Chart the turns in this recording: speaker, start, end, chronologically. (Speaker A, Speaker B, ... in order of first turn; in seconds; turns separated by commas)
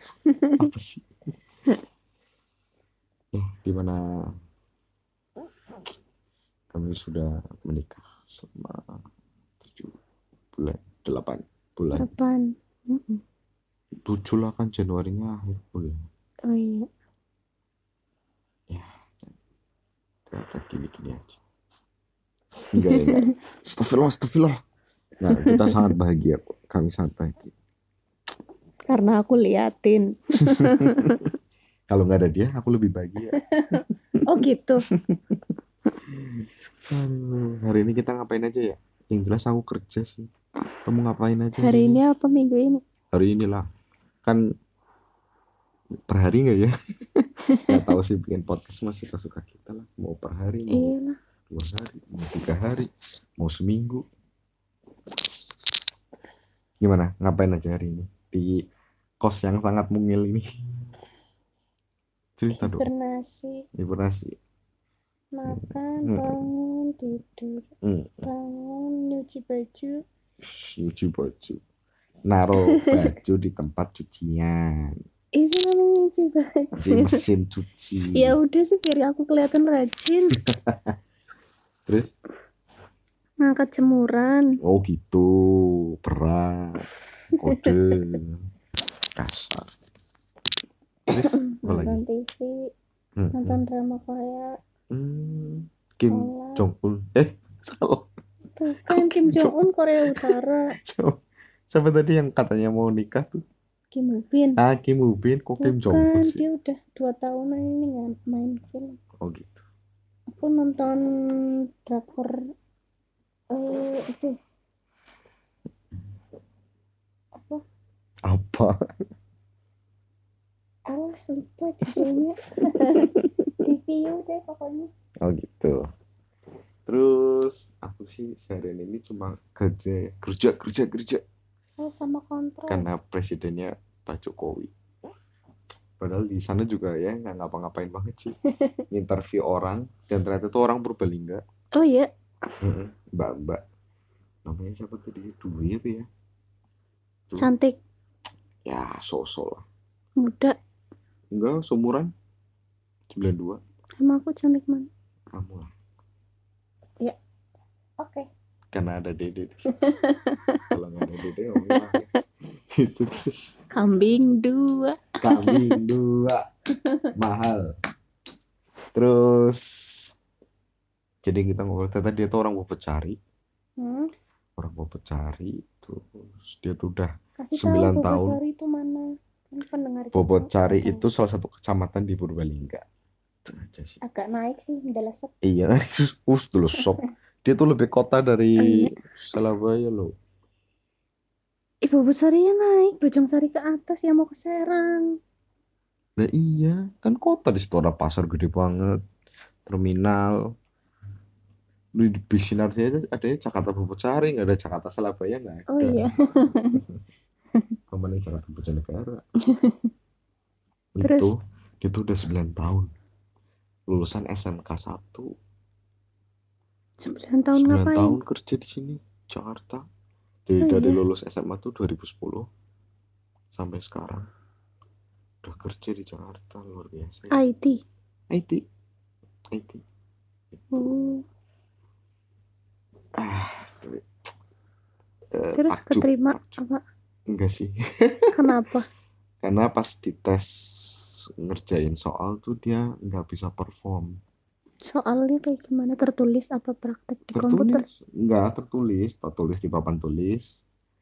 Speaker A: 0.2-0.7, Speaker B: 0.6-1.1, Speaker B: 3.3-4.3, Speaker B: 6.7-9.0, Speaker B: 9.6-9.9, Speaker B: 10.6-12.1, Speaker A: 11.9-13.2, Speaker B: 14.1-16.1, Speaker A: 16.4-16.9, Speaker B: 18.7-19.3, Speaker B: 20.3-21.4, Speaker B: 22.7-24.6, Speaker A: 22.9-23.3, Speaker B: 25.2-27.5, Speaker A: 25.4-25.9, Speaker A: 28.9-31.2, Speaker B: 30.4-31.3, Speaker B: 31.9-33.9, Speaker A: 33.4-34.8, Speaker B: 34.9-35.4, Speaker B: 36.0-42.0, Speaker A: 41.6-42.8, Speaker B: 43.1-43.6, Speaker B: 46.1-46.7, Speaker A: 47.5-47.8, Speaker B: 47.5-51.0, Speaker A: 50.7-51.2, Speaker B: 51.5-54.0, Speaker B: 56.8-58.6, Speaker B: 59.2-60.4, Speaker B: 62.4-62.9, Speaker A: 62.6-63.6, Speaker B: 63.7-64.4, Speaker A: 65.3-67.7, Speaker B: 65.5-66.5, Speaker B: 67.8-68.3, Speaker A: 68.2-70.0, Speaker B: 70.4-71.6, Speaker B: 72.3-75.0, Speaker A: 72.7-73.0, Speaker A: 75.3-77.2, Speaker B: 76.8-78.4, Speaker A: 78.1-80.4, Speaker B: 80.3-81.0, Speaker B: 81.9-82.1, Speaker A: 83.4-84.6, Speaker B: 84.6-88.4, Speaker A: 87.4-87.7, Speaker B: 89.2-89.7, Speaker B: 91.1-92.0, Speaker A: 91.3-92.7, Speaker B: 93.2-93.6, Speaker A: 93.3-94.5, Speaker B: 94.9-98.1, Speaker A: 96.1-96.7, Speaker A: 98.5-100.8, Speaker B: 98.8-101.2, Speaker B: 101.7-103.4, Speaker A: 103.9-104.6, Speaker B: 104.6-106.4, Speaker A: 105.6-109.0, Speaker B: 109.2-109.6, Speaker A: 110.3-112.4, Speaker A: 113.5-114.4, Speaker A: 117.4-117.6, Speaker B: 118.2-118.7, Speaker A: 120.9-123.1, Speaker B: 122.7-123.6, Speaker A: 123.6-124.9, Speaker B: 125.2-125.8, Speaker B: 126.9-131.2, Speaker A: 131.8-132.8, Speaker B: 132.7-134.7, Speaker B: 136.0-138.3, Speaker B: 138.9-141.4, Speaker A: 141.7-142.1, Speaker B: 142.6-143.6, Speaker B: 144.4-146.1, Speaker A: 147.4-147.8, Speaker B: 148.7-149.6, Speaker A: 150.2-150.6, Speaker B: 151.3-152.1, Speaker B: 153.1-153.6, Speaker A: 154.0-154.9, Speaker B: 155.3-155.7, Speaker A: 158.0-158.3, Speaker B: 158.7-159.8, Speaker A: 159.7-160.6, Speaker B: 160.7-162.1, Speaker A: 161.7-162.0, Speaker B: 162.8-163.6, Speaker A: 163.7-165.8, Speaker B: 165.2-166.4, Speaker A: 166.7-167.1, Speaker B: 167.1-167.7, Speaker B: 168.9-170.1, Speaker B: 171.2-173.2, Speaker A: 173.8-174.1, Speaker B: 174.6-178.4, Speaker A: 177.4-181.0, Speaker B: 180.1-182.8, Speaker B: 183.4-184.0, Speaker A: 184.0-185.3, Speaker B: 185.4-190.1, Speaker A: 186.8-187.1, Speaker A: 188.6-188.9, Speaker A: 191.8-195.1, Speaker B: 196.2-199.0, Speaker B: 199.7-200.4, Speaker B: 202.0-206.1, Speaker A: 205.7-206.8, Speaker B: 207.9-209.2, Speaker A: 209.4-209.9, Speaker B: 210.9-212.9, Speaker A: 211.0-211.3, Speaker B: 213.9-215.3, Speaker A: 217.0-218.2, Speaker B: 217.5-219.8, Speaker B: 220.5-222.4, Speaker A: 220.6-221.0, Speaker B: 223.5-224.3, Speaker B: 225.4-227.4, Speaker A: 227.3-227.8, Speaker B: 228.3-228.6, Speaker B: 229.5-229.8, Speaker B: 230.6-230.9, Speaker A: 230.7-231.2, Speaker B: 233.2-234.0, Speaker B: 235.3-236.6, Speaker A: 235.6-236.8, Speaker B: 237.3-238.6, Speaker A: 238.3-238.9, Speaker B: 239.4-244.2, Speaker A: 244.8-247.8, Speaker B: 247.3-250.6